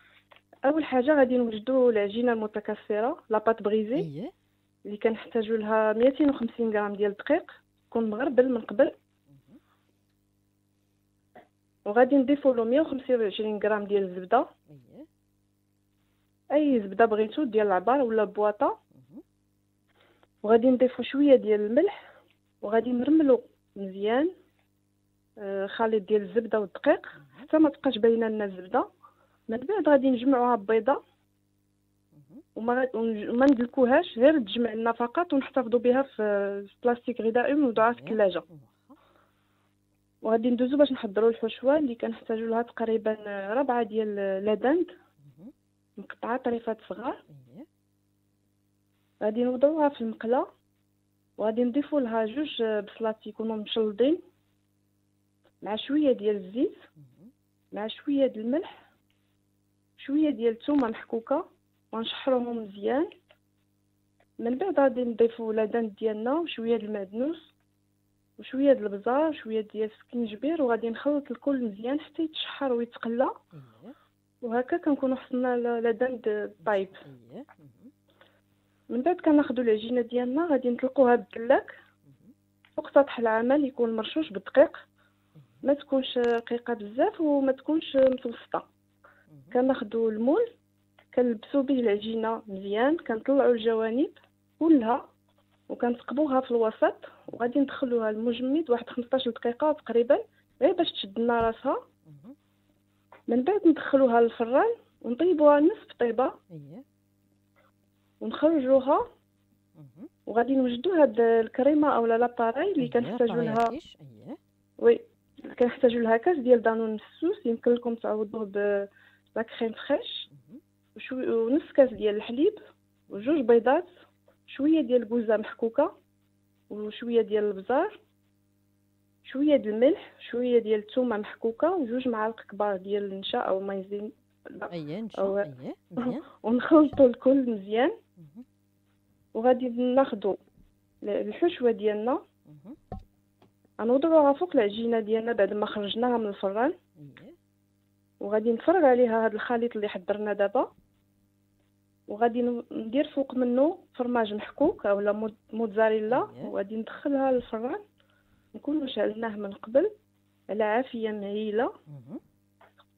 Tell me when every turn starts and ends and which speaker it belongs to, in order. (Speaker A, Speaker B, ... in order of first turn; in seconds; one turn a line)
Speaker A: 0.7-4.1
Speaker B: 4.0-4.3
Speaker A: 4.9-8.9
Speaker B: 9.3-9.6
Speaker A: 11.9-14.5
Speaker B: 14.7-15.1
Speaker A: 16.5-18.8
Speaker B: 18.9-19.2
Speaker A: 20.4-21.9
Speaker A: 22.6-24.3
Speaker A: 25.4-28.9
Speaker B: 27.2-27.5
Speaker A: 29.5-31.0
Speaker B: 32.1-32.4
Speaker A: 32.6-38.5
Speaker B: 37.8-39.0
Speaker A: 40.2-44.9
Speaker B: 45.2-45.5
Speaker A: 46.0-47.2
Speaker B: 47.3-47.7
Speaker A: 49.2-50.5
Speaker A: 51.4-54.2
Speaker A: 55.6-56.8
Speaker B: 57.0-57.3
Speaker A: 57.7-58.8
Speaker A: 60.0-63.1
Speaker A: 64.4-67.5
Speaker A: 68.4-73.3
Speaker B: 73.5-74.0
Speaker A: 74.4-77.0
Speaker B: 76.6-77.9
Speaker A: 78.9-81.7
Speaker B: 82.1-82.3
Speaker A: 82.8-84.8
Speaker B: 85.4-85.6
Speaker A: 85.6-88.7
Speaker B: 89.3-89.6
Speaker A: 89.5-90.4
Speaker A: 91.1-95.0
Speaker A: 95.7-101.8
Speaker B: 102.1-102.4
Speaker A: 103.3-106.4
Speaker B: 106.5-106.8
Speaker A: 108.2-109.0
Speaker B: 109.8-110.1
Speaker A: 110.3-113.7
Speaker B: 112.8-114.4
Speaker A: 115.5-120.3
Speaker B: 120.3-120.6
Speaker A: 121.0-122.6
Speaker A: 123.1-123.9
Speaker A: 124.5-125.9
Speaker A: 126.7-128.0
Speaker A: 129.2-135.4
Speaker B: 134.7-136.3
Speaker A: 136.0-137.9
Speaker B: 138.2-138.4
Speaker A: 139.3-140.4
Speaker A: 141.0-142.2
Speaker B: 142.5-142.8
Speaker A: 143.8-146.8
Speaker B: 147.0-147.3
Speaker A: 148.2-150.7
Speaker A: 152.1-157.8
Speaker B: 156.1-156.5
Speaker A: 158.5-159.9
Speaker A: 160.5-161.7
Speaker B: 161.9-162.2